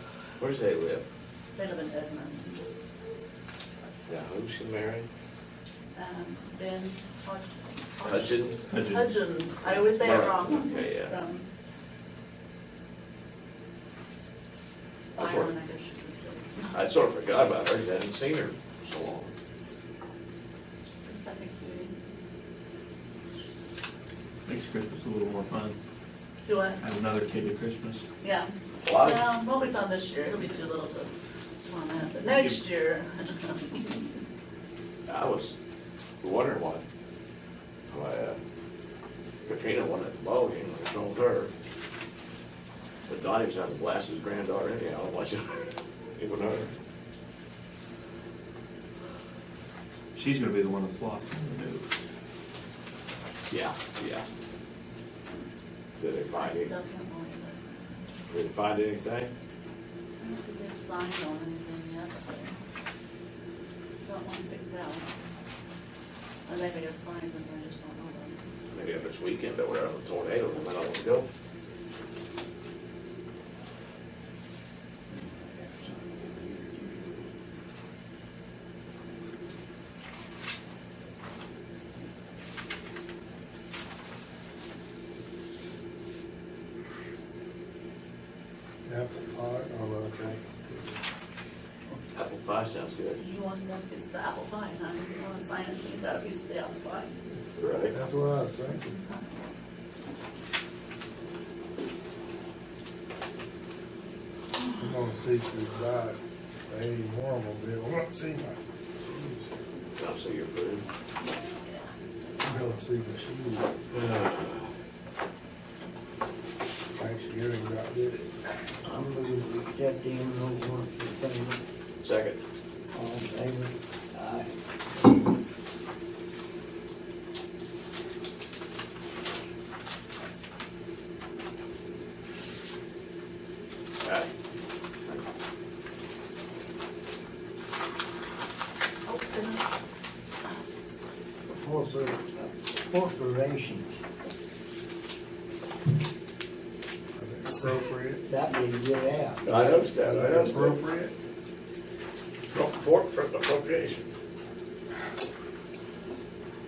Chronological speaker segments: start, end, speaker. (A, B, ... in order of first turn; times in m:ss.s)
0:00.4-0:01.0 A
0:01.5-0:02.7 B
0:04.1-0:05.1 A
0:05.9-0:11.5 B
0:08.0-0:08.6 A
0:08.7-0:09.1 C
0:09.8-0:11.2 A
0:15.1-0:16.8 B
0:15.2-0:15.5 A
0:16.7-0:19.3 A
0:21.0-0:22.0 B
0:24.4-0:25.8 C
0:26.4-0:26.8 B
0:26.8-0:28.0 C
0:28.2-0:31.1 B
0:28.8-0:29.2 A
0:31.6-0:34.1 B
0:32.2-0:32.6 C
0:35.1-0:35.5 A
0:36.2-0:36.8 A
0:37.9-0:38.4 A
0:39.4-0:41.5 A
0:43.1-0:45.6 A
0:46.2-0:46.7 A
0:50.1-0:51.8 C
0:53.5-0:54.2 A
0:56.0-0:56.7 A
0:56.3-0:58.1 B
0:58.3-0:59.3 A
1:00.2-1:02.6 B
1:04.0-1:05.1 B
1:06.5-1:08.4 B
1:08.7-1:11.2 A
1:15.1-1:17.3 D
1:28.8-1:30.9 E
1:32.1-1:33.2 A
1:33.2-1:37.2 B
1:37.6-1:37.9 A
1:37.9-1:39.0 E
1:38.9-1:39.3 B
1:44.7-1:48.6 E
1:49.9-1:50.8 A
1:51.6-1:51.9 B
1:52.4-1:53.7 E
1:53.9-1:54.7 A
1:57.0-1:58.3 E
1:58.8-2:01.6 D
2:02.0-2:02.4 A
2:02.9-2:05.3 D
2:14.0-2:14.3 A
2:19.0-2:19.7 B
2:21.5-2:24.0 D
2:27.2-2:28.2 E
2:28.2-2:29.7 D
2:29.4-2:30.8 A
2:30.0-2:31.1 E
2:32.5-2:34.1 A